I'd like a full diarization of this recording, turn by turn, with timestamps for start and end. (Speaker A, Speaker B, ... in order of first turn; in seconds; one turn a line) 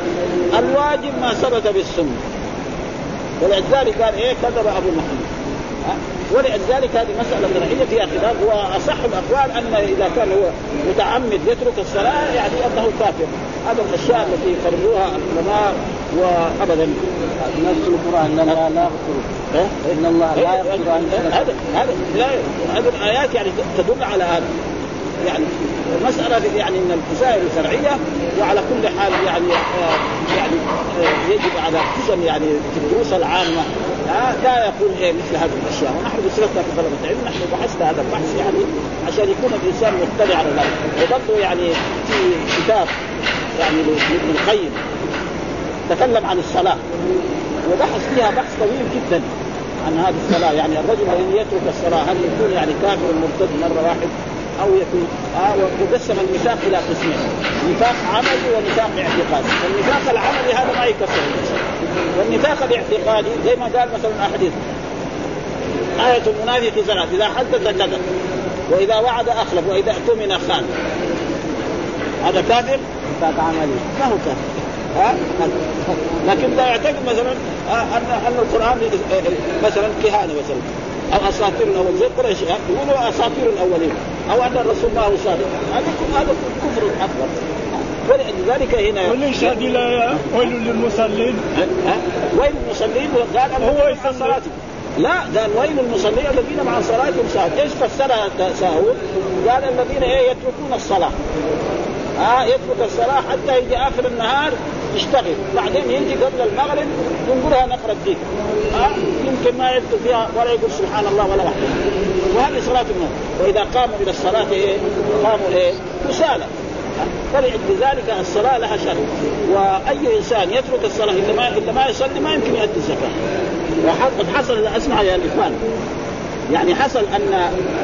Speaker A: 0.6-2.2
Speaker A: 3.4-5.3
Speaker A: 5.8-17.0
Speaker B: 17.5-19.2
Speaker A: 18.4-18.8
Speaker A: 19.5-24.5
Speaker B: 19.9-21.5
Speaker A: 25.2-42.9
Speaker A: 43.6-44.8
Speaker A: 45.9-46.8
Speaker A: 47.7-49.3
Speaker A: 49.8-61.6
Speaker A: 62.2-64.6
Speaker A: 66.0-68.0
Speaker A: 68.7-70.7
Speaker A: 72.2-72.8
Speaker B: 73.1-73.8
Speaker A: 73.8-74.4
Speaker A: 75.0-75.6
Speaker A: 76.2-87.4
Speaker A: 88.0-89.7
Speaker C: 89.1-91.5
Speaker A: 91.6-101.2
Speaker C: 93.6-94.4
Speaker A: 102.2-108.2
Speaker A: 108.7-116.5
Speaker A: 117.0-123.2
Speaker A: 123.8-125.6
Speaker A: 126.5-127.5